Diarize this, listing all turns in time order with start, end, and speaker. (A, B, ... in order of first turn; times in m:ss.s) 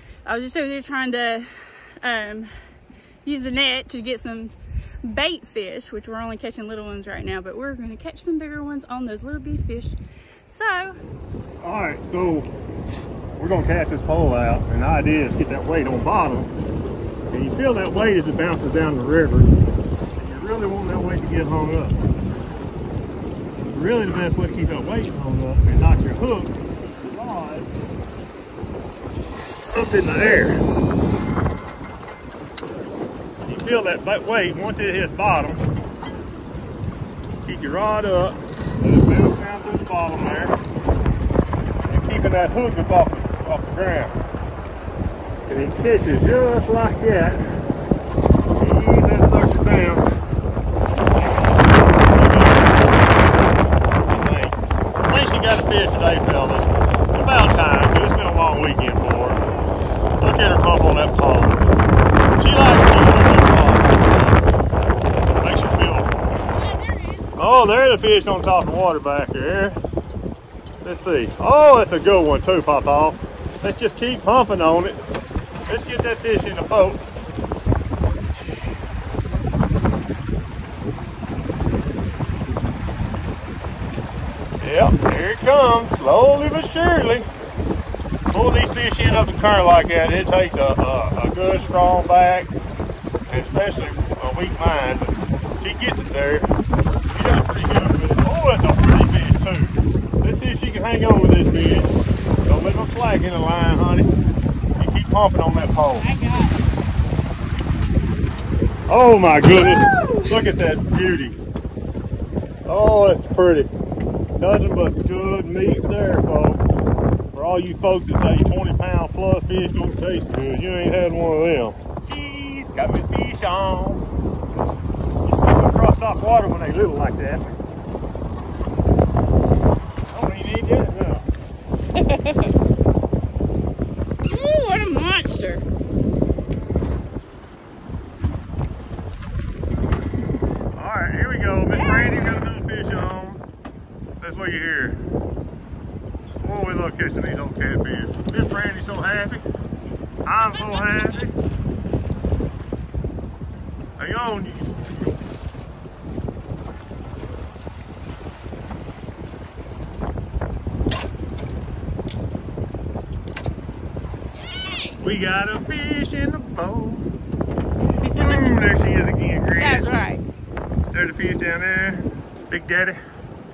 0:00.3-0:01.5 A
0:02.0-0:02.5 A
0:03.2-0:11.0 A
0:11.6-0:12.5 B
0:13.4-0:16.5 B
0:17.3-0:19.5 B
0:20.2-0:22.0 B
0:23.7-0:27.7 B
0:29.7-0:30.6 B
0:33.5-0:35.6 B
0:37.4-0:40.6 B
0:41.9-0:44.2 B
0:45.5-0:47.4 B
0:48.6-0:50.0 B
0:52.0-0:53.1 B
0:54.1-0:59.4 B
1:00.2-1:01.8 B
1:02.4-1:04.4 B
1:05.4-1:06.1 B
1:06.4-1:07.3 A
1:07.4-1:09.8 B
1:10.8-1:15.0 B
1:15.7-1:17.0 B
1:24.6-1:27.3 B
1:28.3-1:32.5 B
1:33.3-1:36.5 B
1:37.1-1:41.9 B
1:42.5-1:44.1 B
1:44.8-1:46.1 B
1:46.0-1:46.6 A
1:48.9-1:51.4 B
1:49.5-1:50.4 A
1:52.7-1:53.7 B
1:54.4-1:56.7 B
1:57.3-2:04.0 B
2:05.2-2:07.5 B
2:10.1-2:11.2 B
2:12.0-2:12.5 A
2:14.2-2:15.6 A
2:20.8-2:23.4 B
2:21.8-2:22.4 A
2:24.2-2:25.0 B
2:26.4-2:29.4 B
2:30.3-2:31.3 B
2:30.5-2:31.1 A
2:34.0-2:35.2 B
2:44.3-2:45.0 A
2:45.0-2:47.1 B
2:48.0-2:48.5 A
2:48.2-2:49.9 B
2:49.6-2:50.2 A
2:50.9-2:53.0 B